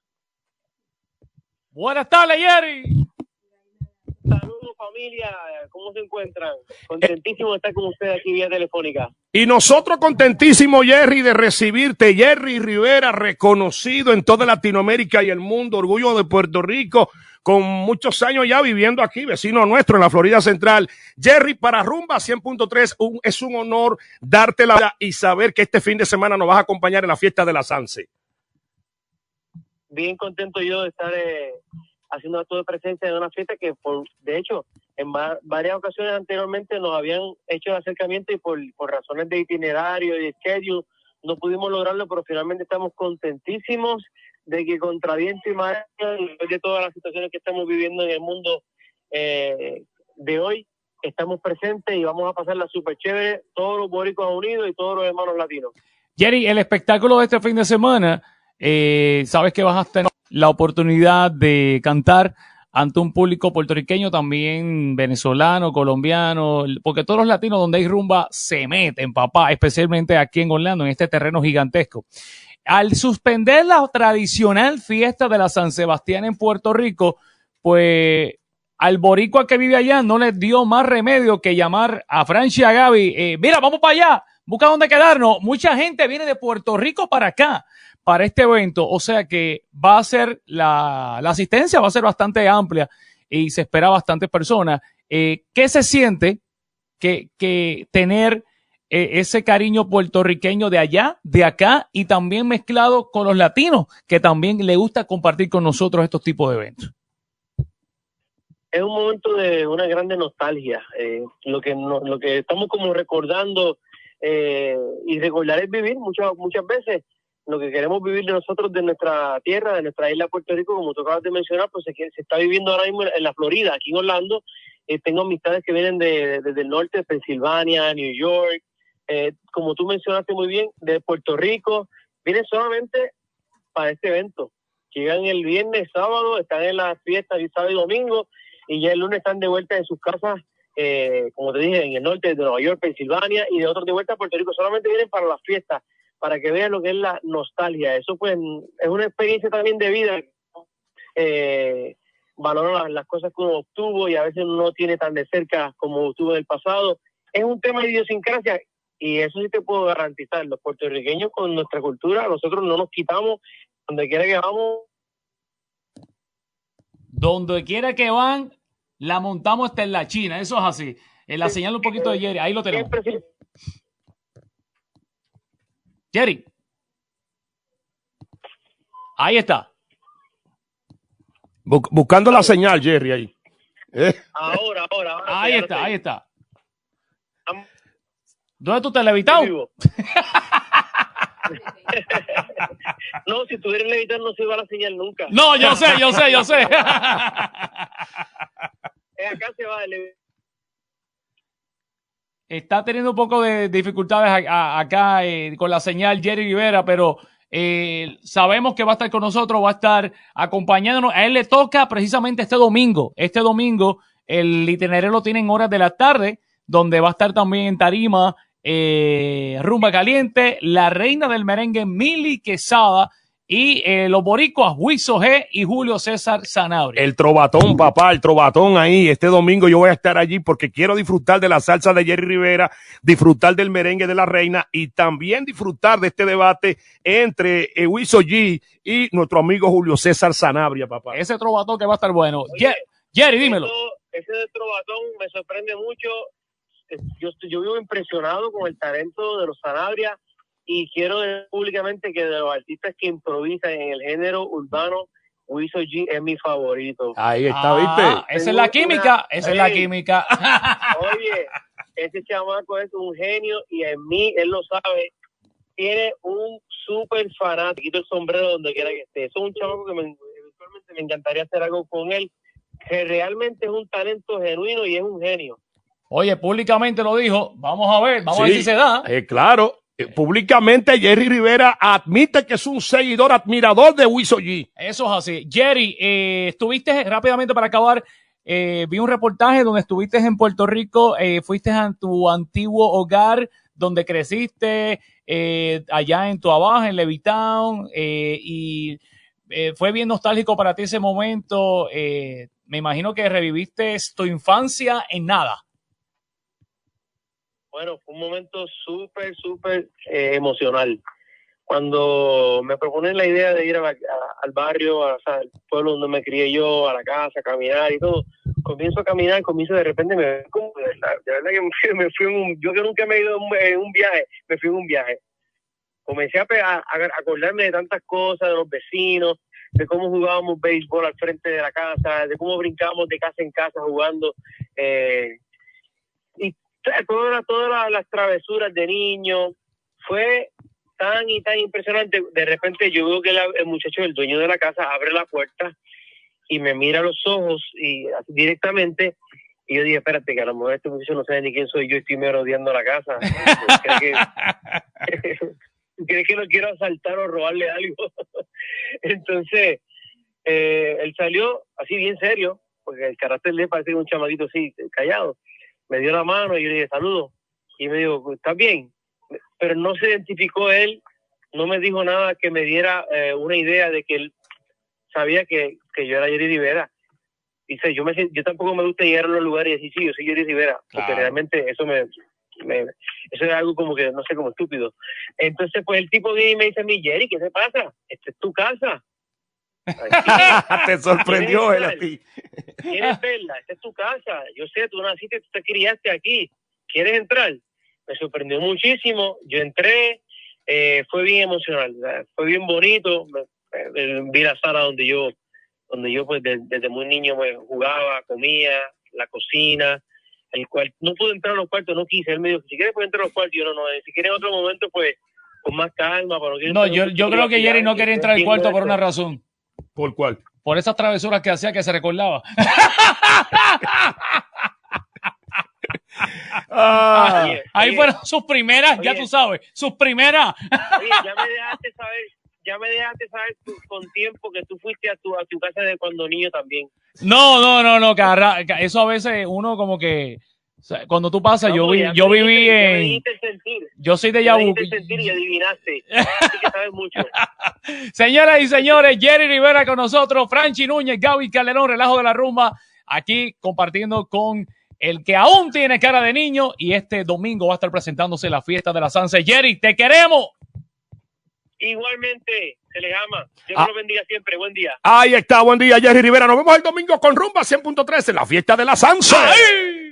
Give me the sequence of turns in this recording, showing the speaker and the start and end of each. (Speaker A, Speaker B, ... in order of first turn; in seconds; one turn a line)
Speaker A: 1.7-3.0
Speaker B: 4.3-9.1
Speaker C: 9.3-28.1
Speaker B: 29.9-31.6
Speaker B: 32.1-55.7
Speaker A: 56.2-72.1
Speaker A: 72.7-96.4
Speaker A: 97.0-106.9
Speaker B: 108.7-133.1
Speaker B: 133.7-150.3
Speaker B: 151.2-164.8
Speaker A: 167.1-172.9
Speaker B: 171.8-172.2
Speaker B: 172.7-173.2
Speaker A: 176.1-176.4
Speaker A: 179.2-179.7
Speaker C: 181.7-183.3
Speaker B: 182.3-182.5
Speaker C: 183.9-184.2
Speaker B: 184.3-185.9
Speaker A: 185.3-186.2
Speaker A: 188.6-190.8
Speaker B: 189.3-189.7
Speaker B: 191.9-192.4
Speaker B: 193.2-196.8
Speaker A: 195.3-197.7
Speaker B: 199.2-200.1
Speaker A: 202.5-227.0
Speaker C: 227.0-241.2
Speaker A: 241.1-243.7
Speaker B: 242.5-242.8
Speaker B: 243.4-246.3
Speaker B: 246.9-257.1
Speaker C: 257.1-258.2
Speaker A: 257.5-260.9
Speaker B: 258.3-259.9
Speaker B: 260.9-265.1
Speaker B: 265.8-272.3
Speaker B: 272.9-275.6
Speaker A: 276.1-279.1
Speaker C: 278.3-284.7
Speaker A: 284.8-305.6
Speaker B: 307.7-311.0
Speaker B: 311.7-325.2
Speaker B: 326.1-335.4
Speaker B: 336.4-345.7
Speaker B: 346.5-349.1
Speaker B: 349.7-354.2
Speaker A: 353.4-354.5
Speaker B: 355.1-358.4
Speaker B: 359.0-359.8
Speaker B: 360.4-365.4
Speaker B: 365.9-368.9
Speaker B: 369.6-371.0
Speaker B: 371.5-374.3
Speaker B: 375.1-376.9
Speaker B: 377.7-382.1
Speaker A: 380.9-381.4
Speaker B: 382.6-389.0
Speaker B: 390.0-390.6
Speaker A: 390.1-390.5
Speaker C: 390.3-392.2
Speaker B: 391.2-392.0
Speaker B: 392.9-405.3
Speaker B: 405.9-410.0
Speaker B: 410.5-419.0
Speaker A: 416.7-419.4
Speaker C: 420.0-420.4
Speaker A: 420.6-424.3
Speaker C: 426.7-427.5
Speaker A: 427.1-431.0
Speaker B: 427.4-428.1
Speaker B: 429.0-429.3
Speaker B: 430.9-436.9
Speaker A: 437.2-443.2
Speaker B: 441.6-443.9
Speaker A: 444.0-445.3
Speaker B: 444.4-447.3
Speaker A: 446.1-446.5
Speaker A: 447.3-460.5
Speaker B: 461.8-465.0
Speaker C: 465.0-469.6